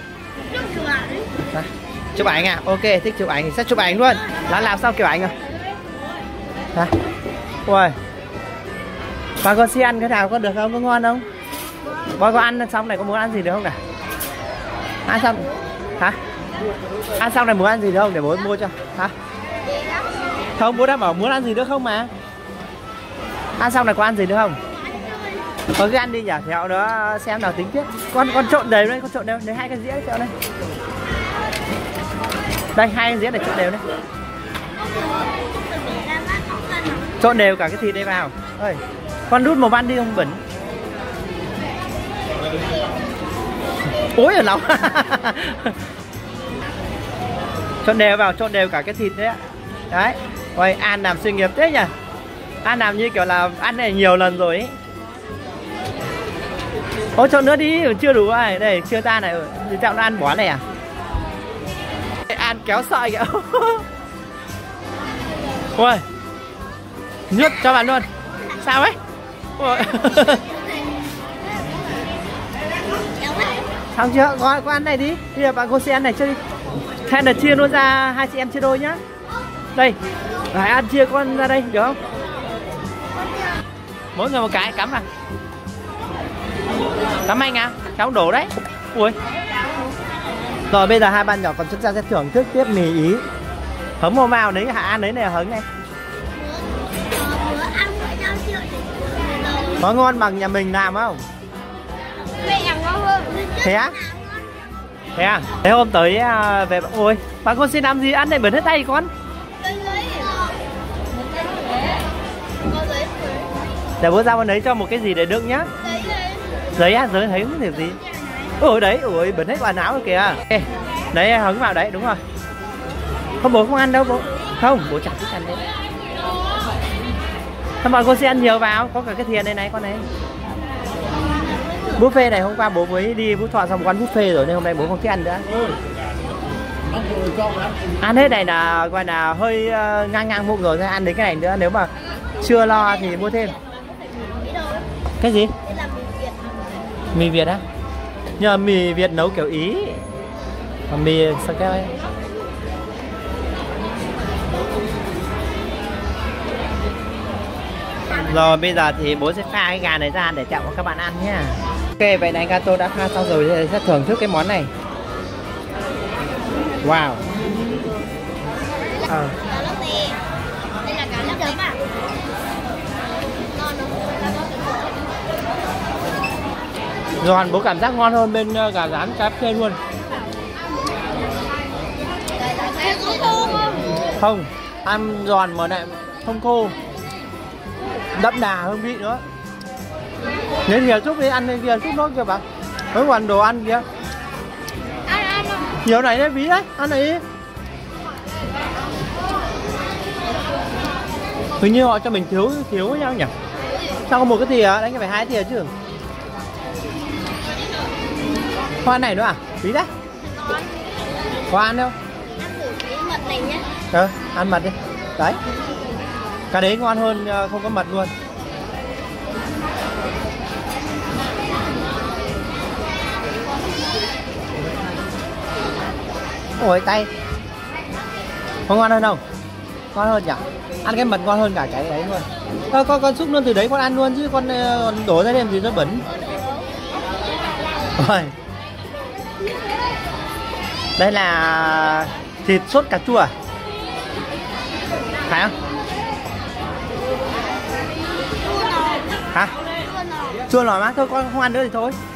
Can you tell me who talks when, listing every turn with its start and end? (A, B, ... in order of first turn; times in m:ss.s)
0:00.5-0:01.3 A
0:01.5-0:05.4 B
0:04.0-0:04.7 A
0:07.6-0:08.0 B
0:09.4-0:11.2 B
0:12.2-0:13.8 B
0:15.1-0:16.2 B
0:15.3-0:15.6 A
0:17.2-0:19.1 B
0:19.6-0:20.3 A
0:20.6-0:22.1 B
0:23.6-0:24.6 B
0:24.7-0:25.5 A
0:25.8-0:30.3 B
0:32.8-0:33.8 B
0:34.7-0:37.3 A
0:37.2-0:40.4 B
0:42.5-0:43.0 A
0:44.1-0:45.8 B
0:47.8-0:49.4 B
0:49.9-0:51.9 B
0:52.6-0:54.7 B
0:57.2-1:00.6 B
1:02.3-1:03.8 B
1:05.8-1:06.0 B
1:07.3-1:08.1 B
1:08.6-1:09.0 B
1:09.6-1:10.4 B
1:09.9-1:10.6 A
1:13.2-1:13.7 A
1:13.9-1:16.4 B
1:17.1-1:19.0 B
1:20.5-1:22.0 B
1:24.1-1:25.1 B
1:27.2-1:29.2 B
1:30.7-1:33.2 B
1:34.0-1:35.6 B
1:36.3-1:39.9 A
1:39.8-1:41.2 B
1:42.2-1:44.7 A
1:43.6-1:44.0 B
1:45.2-1:49.1 B
1:49.6-1:50.6 A
1:52.6-1:53.5 A
1:54.0-1:55.7 B
1:55.8-1:56.5 A
1:56.8-1:58.0 B
1:58.0-1:58.5 A
1:58.6-2:02.2 B
2:03.4-2:05.6 B
2:07.8-2:10.0 B
2:11.2-2:12.0 A
2:12.0-2:15.4 B
2:18.0-2:21.9 B
2:22.4-2:23.5 B
2:22.4-2:24.9 A
2:25.2-2:25.5 B
2:25.6-2:27.1 A
2:27.1-2:27.6 B
2:28.4-2:30.0 B
2:30.9-2:32.0 B
2:38.1-2:44.7 B
2:46.8-2:47.2 B
2:49.1-2:49.4 B
2:49.4-2:50.2 A
2:50.8-2:51.8 A
2:53.5-2:55.1 A
2:57.2-2:59.8 B
3:02.4-3:03.9 A
3:04.2-3:06.7 B
3:08.2-3:09.2 B
3:10.6-3:13.8 B
3:15.2-3:15.5 A
3:15.8-3:17.2 B
3:21.6-3:23.3 B
3:24.0-3:25.7 B
3:27.6-3:27.9 A
3:28.8-3:29.9 B
3:30.3-3:30.6 A
3:31.5-3:31.9 B
3:32.4-3:33.7 A
3:33.9-3:35.4 B
3:36.5-3:38.1 B
3:46.6-3:47.1 B
3:48.7-3:49.2 B
3:49.9-3:56.0 B
3:56.1-3:57.2 A
3:58.0-3:58.3 B
4:01.0-4:03.3 B
4:05.3-4:05.5 B
4:08.3-4:10.4 A
4:10.5-4:12.0 B